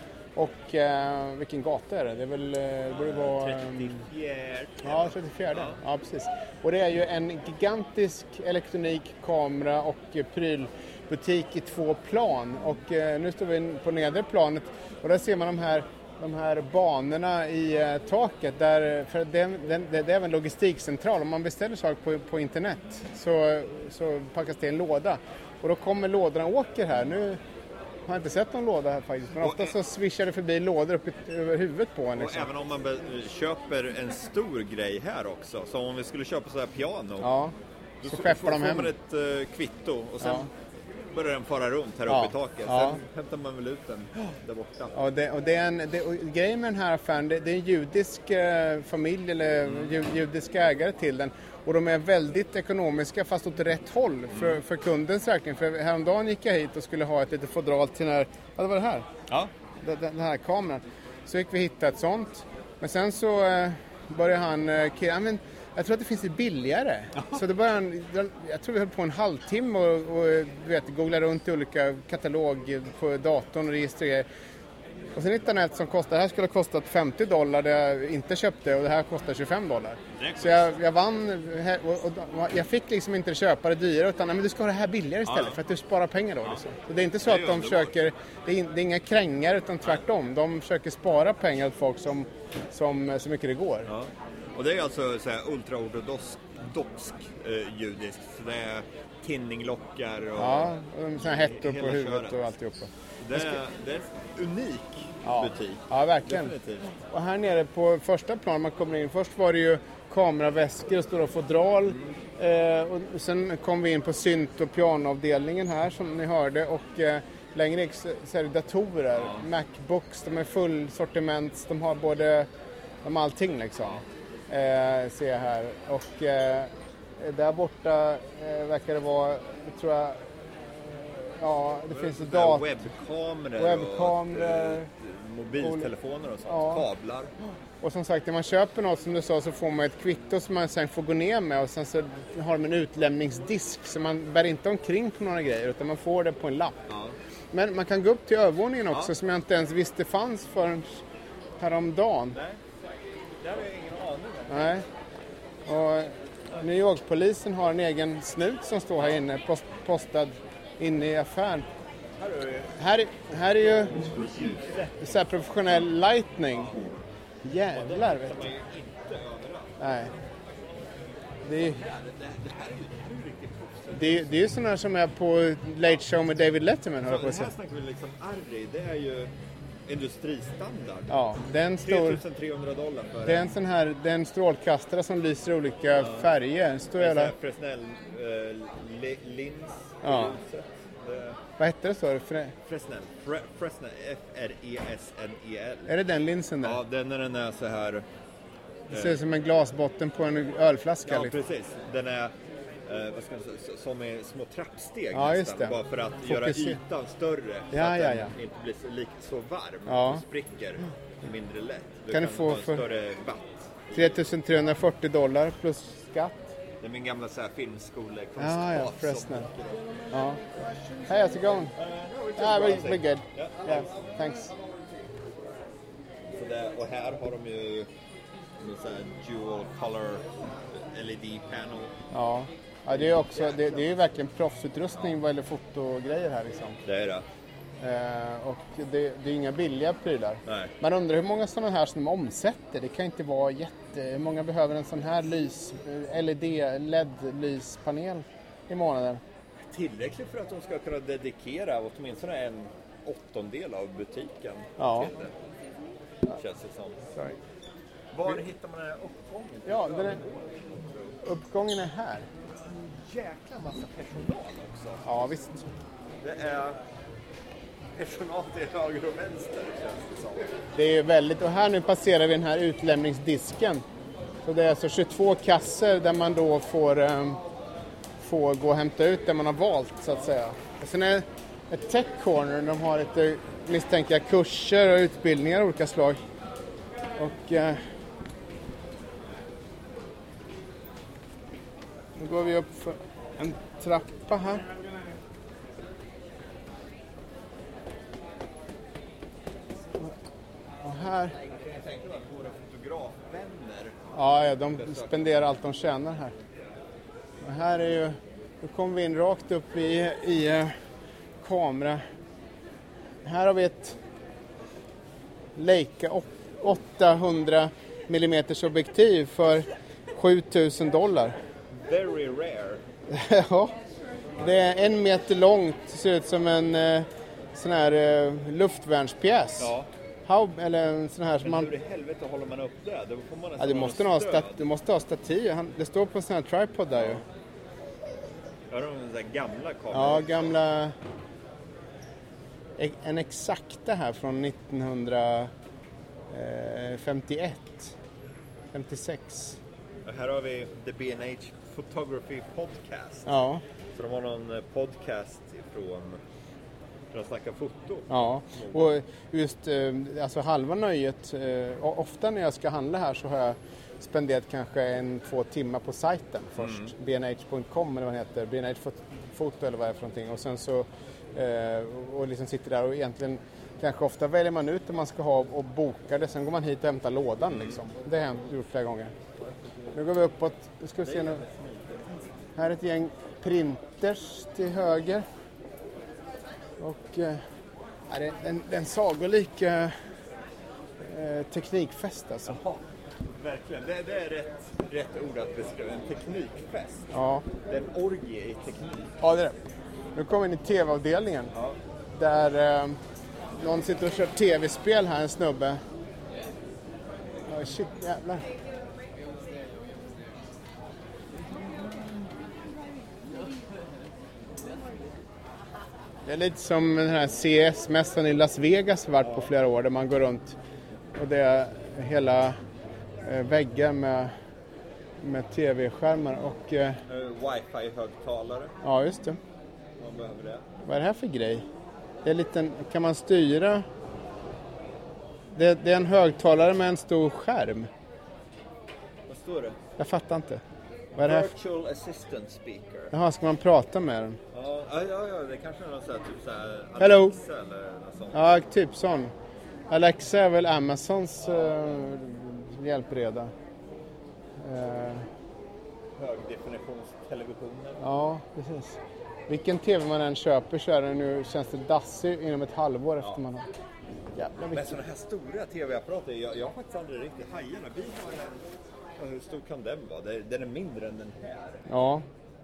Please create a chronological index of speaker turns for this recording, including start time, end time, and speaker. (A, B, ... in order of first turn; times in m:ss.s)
0:00.4-0:04.0 A
0:03.0-0:05.8 B
0:04.8-0:27.4 A
0:28.1-0:32.5 A
0:29.4-0:29.8 B
0:32.2-0:37.3 B
0:37.2-0:37.5 A
0:38.0-0:40.5 B
0:38.1-0:38.9 A
0:40.2-0:40.5 A
0:41.1-0:45.0 B
0:42.1-0:43.0 A
0:44.9-0:59.1 A
0:59.8-1:14.3 A
1:15.1-1:33.9 A
1:20.2-1:20.7 B
1:25.3-1:25.6 B
1:27.2-1:27.9 B
1:33.9-1:40.8 B
1:40.4-1:43.6 A
1:41.4-1:42.5 B
1:43.2-1:47.0 B
1:45.2-1:46.5 A
1:47.1-2:02.5 A
1:59.2-1:59.4 B
2:03.0-2:12.7 A
2:11.9-2:17.3 B
2:13.6-2:14.9 A
2:15.6-2:15.9 A
2:16.5-2:16.8 A
2:17.8-2:26.9 A
2:26.9-2:27.2 B
2:27.5-2:31.0 A
2:31.6-2:32.4 A
2:32.3-2:34.9 B
2:34.5-2:34.8 A
2:35.7-2:41.7 A
2:42.2-2:42.8 B
2:42.8-2:44.2 A
2:44.0-2:45.5 B
2:45.0-2:46.8 A
2:46.6-2:47.0 B
2:47.4-2:48.5 A
2:47.7-2:49.8 B
2:49.8-2:50.1 A
2:51.4-2:51.8 A
2:51.5-2:54.3 B
2:54.0-2:57.5 A
2:57.0-2:59.3 B
2:59.9-3:01.2 B
3:01.1-3:02.2 A
3:01.8-3:03.5 B
3:03.3-3:07.3 A
3:06.0-3:06.3 B
3:07.0-3:11.4 B
3:10.0-3:10.4 A
3:11.6-3:12.5 A
3:12.6-3:16.0 B
3:15.9-3:16.8 A
3:16.6-3:18.1 B
3:18.9-3:21.4 A
3:18.9-3:19.2 B
3:21.1-3:22.3 B
3:22.9-3:34.2 B
3:25.1-3:26.8 A
3:27.7-3:28.3 A
3:29.9-3:30.2 A
3:32.1-3:32.8 A
3:33.9-3:36.5 A
3:36.8-3:39.9 B
3:38.4-3:39.5 A
3:40.1-3:40.5 A
3:41.0-3:41.7 A
3:41.7-3:45.0 B
3:42.4-3:44.5 A
3:46.4-3:47.9 B
3:48.6-3:52.0 B
3:52.1-3:56.8 A
3:52.9-3:53.8 B
3:56.8-3:57.2 B
3:57.8-4:09.2 A
4:00.5-4:00.7 B
4:09.7-4:15.3 B
4:14.8-4:15.1 A
4:16.3-4:17.1 B
4:18.1-4:21.2 B
4:19.7-4:20.2 A
4:21.2-4:22.3 A
4:23.0-4:25.0 B
4:25.0-4:25.7 A
4:26.2-4:26.8 B
4:28.0-4:30.5 B
4:30.8-4:33.8 A
4:34.4-4:37.4 A
4:38.2-4:46.2 A
4:47.2-4:47.8 A
4:52.2-4:54.7 A
5:00.8-5:01.4 A
5:01.4-5:04.2 B
5:04.1-5:06.3 A
5:04.7-5:05.2 B
5:07.4-5:10.7 A
5:11.4-5:12.0 A
5:13.2-5:14.0 A
5:15.6-5:21.4 A
5:21.7-5:22.8 B
5:23.1-5:23.8 A
5:24.4-5:29.7 A
5:29.6-5:29.9 B
5:30.3-5:31.7 A
5:31.4-5:34.6 B
5:33.6-5:37.2 A
5:38.7-5:40.6 B
5:39.9-5:41.0 A
5:42.8-5:45.5 A
5:46.3-5:48.0 A
5:48.7-5:49.6 A
5:50.0-5:53.3 B
5:53.3-5:53.6 A
5:54.0-5:56.2 B
5:57.1-5:58.9 B
5:58.1-6:19.1 A
6:06.6-6:06.9 B
6:19.9-6:21.4 A
6:21.0-6:22.3 B
6:22.6-6:25.2 A
6:26.8-6:27.4 A
6:28.1-6:30.0 A
6:31.0-6:32.6 A
6:32.5-6:37.1 B
6:37.1-6:37.4 A
6:37.6-6:39.2 B
6:39.2-6:41.5 A
6:42.1-6:43.0 A
6:43.5-6:45.8 A
6:47.5-6:48.5 A
6:56.2-7:00.6 A
6:59.2-6:59.5 B
7:01.2-7:02.6 A
7:03.2-7:04.3 A
7:05.2-7:07.0 A
7:07.1-7:08.8 B
7:08.8-7:09.4 A
7:10.0-7:10.7 B
7:10.8-7:11.7 A
7:12.2-7:13.8 A
7:15.5-7:17.9 A
7:19.3-7:19.8 B
7:20.0-7:20.6 A
7:21.2-7:21.5 A
7:21.2-7:23.1 B
7:23.1-7:24.4 A
7:24.5-7:28.5 B
7:27.0-7:27.4 A
7:28.3-7:29.3 A
7:29.9-7:33.5 A
7:34.6-7:35.3 A
7:36.2-7:38.0 B
7:38.0-7:43.7 A
7:44.4-7:45.0 A
7:44.7-7:48.7 B
7:49.2-7:51.9 B
7:51.9-7:52.2 A